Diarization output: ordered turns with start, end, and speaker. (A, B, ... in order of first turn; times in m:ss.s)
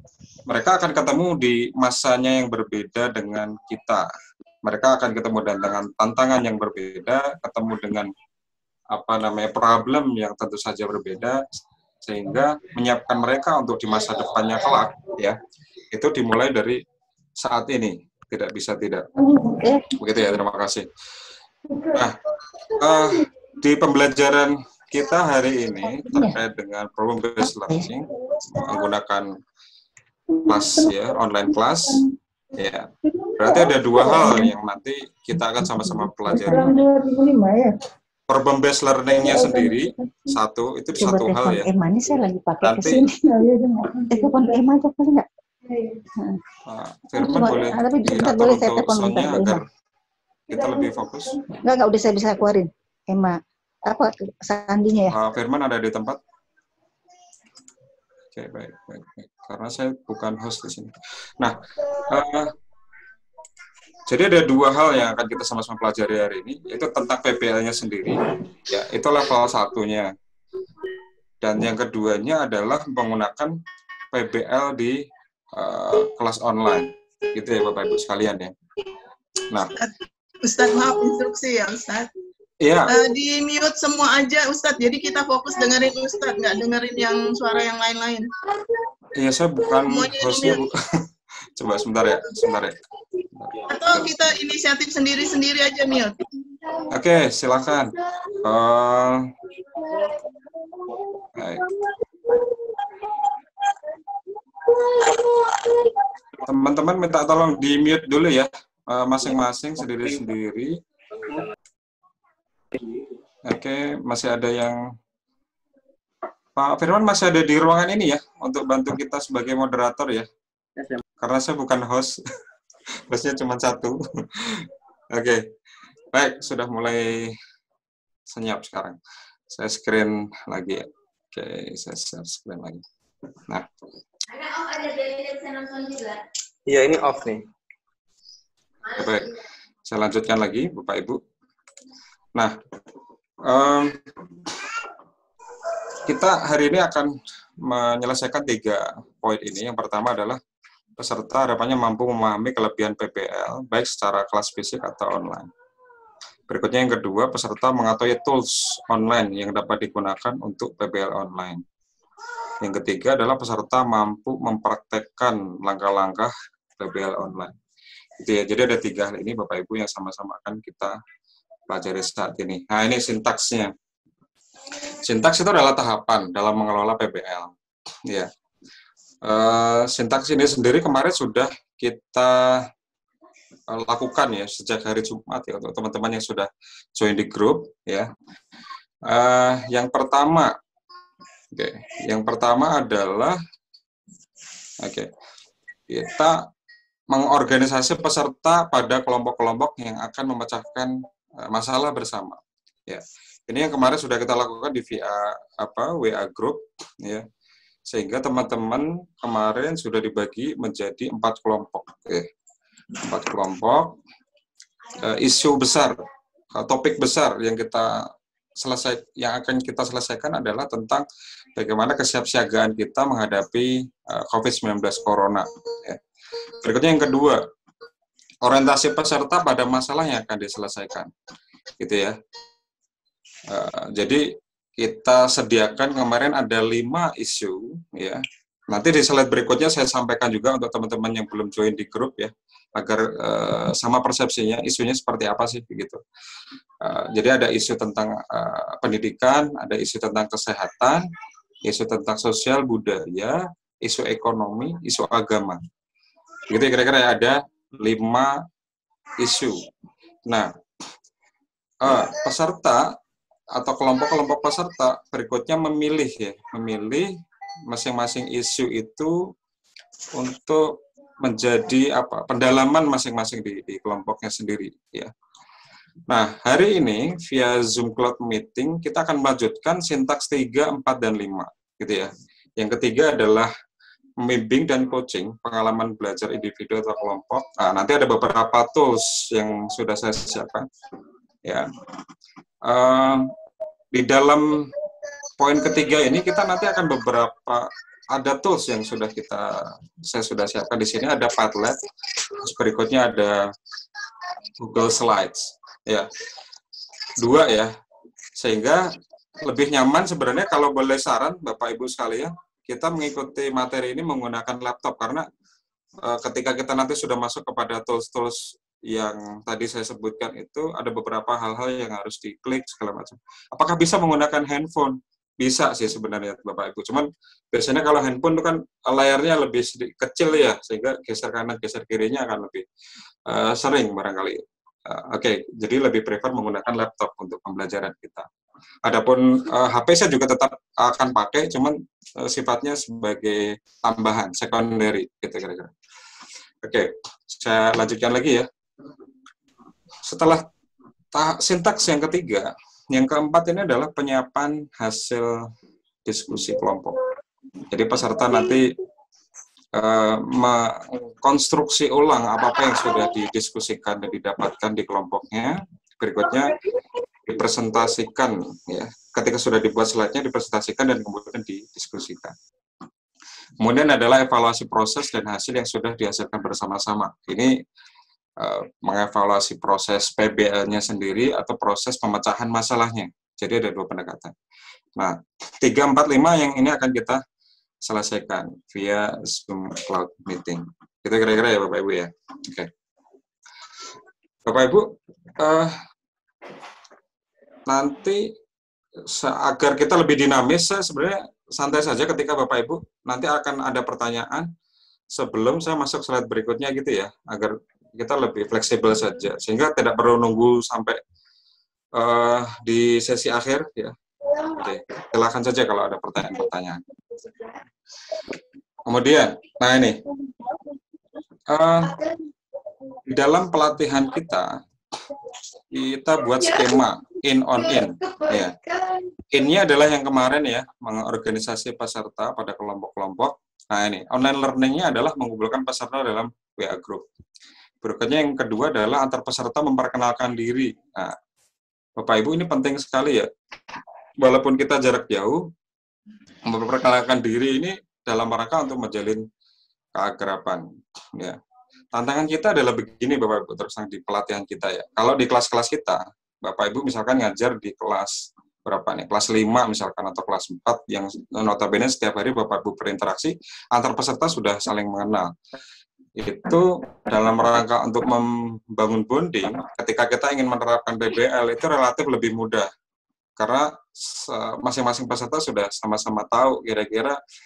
0:00.5-0:04.1 A
0:04.6-0:08.1 A
0:08.9-0:11.4 A
0:12.0-0:15.4 A
0:15.9-0:16.8 A
0:17.4-0:19.1 A
0:19.4-0:19.8 B
0:20.0-0:20.9 A
0:22.8-0:29.3 A
0:26.0-0:26.3 B
0:30.5-0:32.0 A
0:30.5-0:30.9 B
0:32.6-0:32.9 A
0:33.4-0:36.8 A
0:33.4-0:34.5 B
0:35.7-0:37.7 B
0:38.3-0:41.7 A
0:39.3-0:40.3 B
0:41.4-0:45.2 B
0:42.6-0:43.1 A
0:46.7-0:49.6 A
0:47.3-0:49.5 B
0:50.5-0:51.4 A
0:55.1-0:56.2 A
0:58.4-1:02.5 A
1:04.1-1:10.1 A
1:11.4-1:13.6 A
1:14.1-1:15.0 A
1:15.6-1:18.5 A
1:20.4-1:22.1 C
1:22.6-1:23.0 A
1:22.9-1:28.3 C
1:29.1-1:30.8 A
1:29.9-1:30.6 C
1:31.6-1:32.8 A
1:33.4-1:34.2 A
1:33.7-1:36.2 C
1:36.9-1:37.9 A
1:38.4-1:39.3 A
1:41.4-1:41.6 A
1:46.4-1:50.8 A
1:53.5-1:54.8 A
1:56.6-2:00.3 A
2:01.2-2:02.2 A
2:03.1-2:05.4 A
2:06.1-2:07.4 A
2:08.3-2:09.0 A
2:09.5-2:12.8 A
2:18.9-2:19.3 A
2:19.9-2:21.2 A
2:23.5-2:24.0 A
2:26.1-2:27.1 A
2:27.6-2:30.4 A
2:31.0-2:35.5 A
2:36.5-2:41.6 A
2:42.6-2:47.5 A
2:48.2-2:51.0 A
2:51.7-2:53.7 A
2:55.0-2:57.5 A
2:59.2-3:02.6 A
3:03.7-3:08.1 A
3:09.1-3:10.6 A
3:11.5-3:13.4 A
3:14.8-3:15.1 A
3:15.9-3:16.5 A
3:17.1-3:27.2 A
3:27.9-3:32.2 A
3:33.0-3:34.0 A
3:35.0-3:36.0 A
3:36.6-3:38.0 A
3:38.6-3:46.0 A
3:46.6-3:47.4 A
3:48.4-3:51.1 A
3:51.8-3:52.2 A
3:53.5-3:54.3 A
3:54.8-4:06.0 A
4:06.8-4:11.0 A
4:11.7-4:15.6 A
4:16.5-4:18.4 A
4:19.2-4:19.7 A
4:21.8-4:22.9 A
4:23.6-4:27.1 A
4:27.7-4:29.2 A
4:30.2-4:35.1 A
4:36.1-4:43.5 A
4:44.2-4:50.7 A
4:52.6-4:53.3 A
4:53.9-4:54.7 A
4:55.4-5:01.8 A
5:02.3-5:03.4 A
5:04.6-5:06.1 A
5:07.2-5:07.7 A
5:08.4-5:08.9 A
5:09.4-5:15.2 A
5:16.0-5:32.6 A
5:33.3-5:38.3 A
5:38.9-5:45.7 A
5:46.6-5:48.5 A
5:50.1-5:50.4 A
5:51.1-5:55.4 A
5:56.1-5:57.0 A
5:57.7-5:58.7 A
5:59.8-6:06.6 A
6:07.3-6:12.3 A
6:13.6-6:17.5 A
6:18.4-6:24.3 A
6:25.0-6:27.2 A
6:27.8-6:32.7 A
6:34.5-6:34.9 A
6:35.4-6:35.8 A
6:37.7-6:38.3 A
6:39.1-6:44.5 A
6:45.2-6:51.0 A
6:52.0-6:56.8 A
6:58.8-7:00.0 A
7:01.5-7:02.0 A
7:03.1-7:04.6 A
7:05.7-7:08.6 A
7:09.3-7:17.0 A
7:17.8-7:21.1 A
7:22.0-7:23.3 A
7:24.2-7:25.4 A
7:26.5-7:29.2 A
7:29.9-7:30.6 A
7:31.9-7:45.3 A
7:46.2-7:52.7 A
7:53.4-7:57.2 A